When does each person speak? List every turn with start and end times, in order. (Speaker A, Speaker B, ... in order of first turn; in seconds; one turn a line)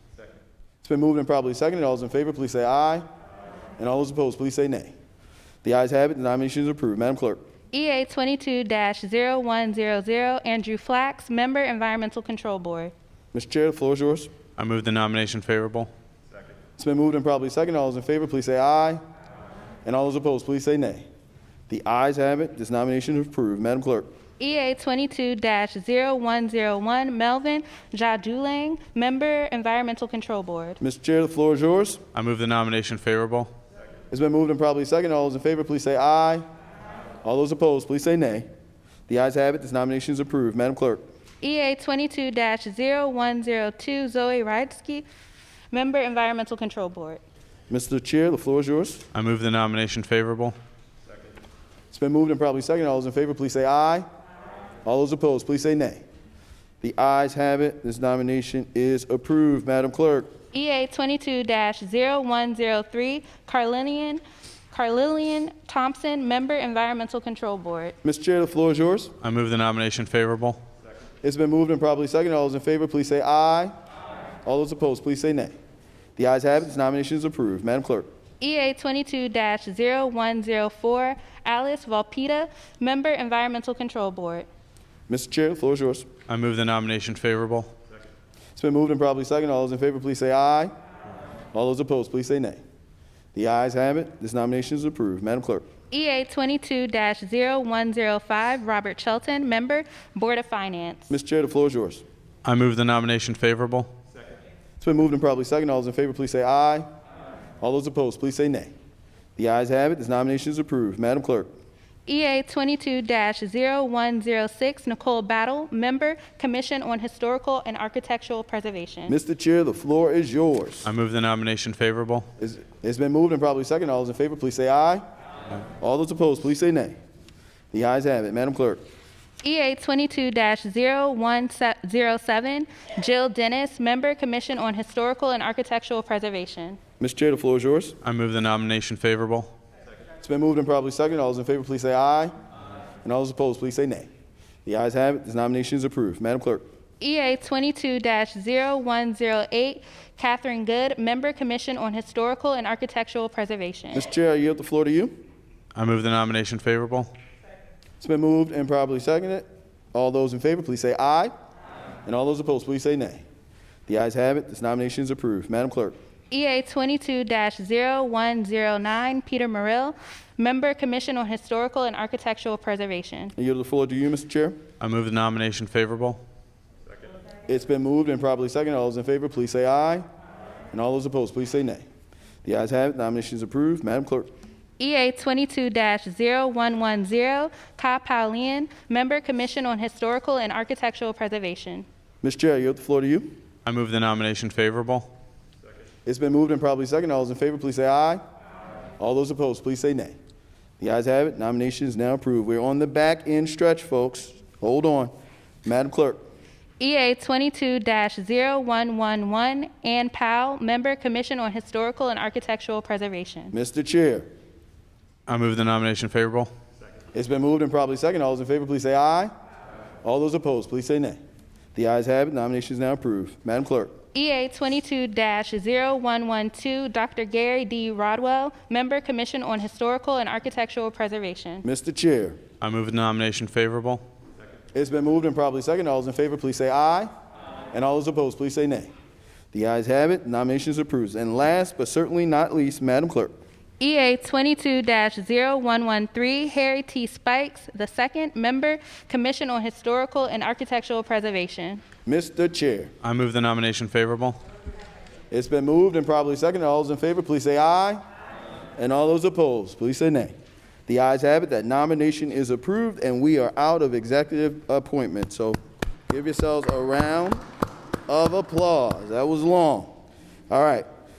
Speaker A: 0.8-3.0
Speaker A: 3.8-4.9
Speaker A: 5.6-7.4
Speaker B: 7.7-12.9
Speaker A: 13.3-14.3
Speaker C: 14.6-15.9
Speaker A: 16.8-19.0
Speaker A: 19.8-21.1
Speaker A: 21.7-24.1
Speaker B: 24.4-30.8
Speaker A: 30.8-32.0
Speaker C: 32.1-33.5
Speaker A: 34.1-36.4
Speaker A: 37.2-38.5
Speaker A: 39.1-41.0
Speaker B: 41.4-45.0
Speaker B: 45.7-47.2
Speaker A: 47.7-49.0
Speaker C: 49.1-50.5
Speaker A: 51.9-54.0
Speaker A: 54.8-56.0
Speaker A: 56.8-60.3
Speaker B: 60.5-67.9
Speaker A: 68.0-69.1
Speaker C: 69.2-70.6
Speaker A: 71.2-73.7
Speaker A: 74.4-75.5
Speaker A: 76.2-78.1
Speaker B: 78.4-84.5
Speaker A: 85.1-86.0
Speaker C: 86.3-87.7
Speaker A: 88.6-90.7
Speaker A: 91.5-92.6
Speaker A: 93.3-95.7
Speaker B: 95.9-101.1
Speaker A: 101.1-102.0
Speaker C: 102.4-103.9
Speaker A: 104.8-106.8
Speaker A: 107.6-108.7
Speaker A: 109.4-111.5
Speaker B: 112.1-119.2
Speaker A: 119.1-120.9
Speaker C: 120.8-122.3
Speaker A: 122.4-125.0
Speaker A: 125.8-127.0
Speaker A: 127.7-128.8
Speaker B: 129.4-136.8
Speaker A: 137.0-138.0
Speaker C: 138.0-139.5
Speaker A: 140.2-142.3
Speaker A: 143.0-144.1
Speaker A: 144.7-146.6
Speaker B: 147.0-154.1
Speaker A: 153.9-155.2
Speaker C: 155.7-157.1
Speaker A: 158.0-161.3
Speaker A: 162.1-163.2
Speaker A: 163.9-165.9
Speaker B: 166.3-173.3
Speaker A: 173.4-174.6
Speaker C: 174.8-176.2
Speaker A: 177.5-180.0
Speaker A: 180.7-181.8
Speaker A: 182.4-184.3
Speaker B: 184.8-191.9
Speaker A: 192.2-193.3
Speaker C: 193.6-195.1
Speaker A: 196.1-198.2
Speaker A: 199.0-200.1
Speaker A: 200.8-205.1
Speaker A: 205.6-206.2
Speaker B: 206.8-213.5
Speaker A: 213.5-214.3
Speaker C: 215.3-216.5
Speaker A: 217.1-219.3
Speaker A: 220.0-221.2
Speaker A: 221.7-223.9
Speaker B: 224.1-231.7
Speaker A: 231.6-232.4
Speaker C: 232.6-234.0
Speaker A: 234.7-237.1
Speaker A: 237.7-238.9
Speaker A: 239.5-243.3
Speaker B: 243.8-251.8
Speaker A: 252.1-252.9
Speaker C: 253.0-254.4
Speaker A: 255.3-258.0
Speaker A: 258.8-260.3
Speaker A: 260.9-265.6
Speaker A: 266.1-267.4
Speaker A: 268.1-269.9
Speaker A: 270.5-270.9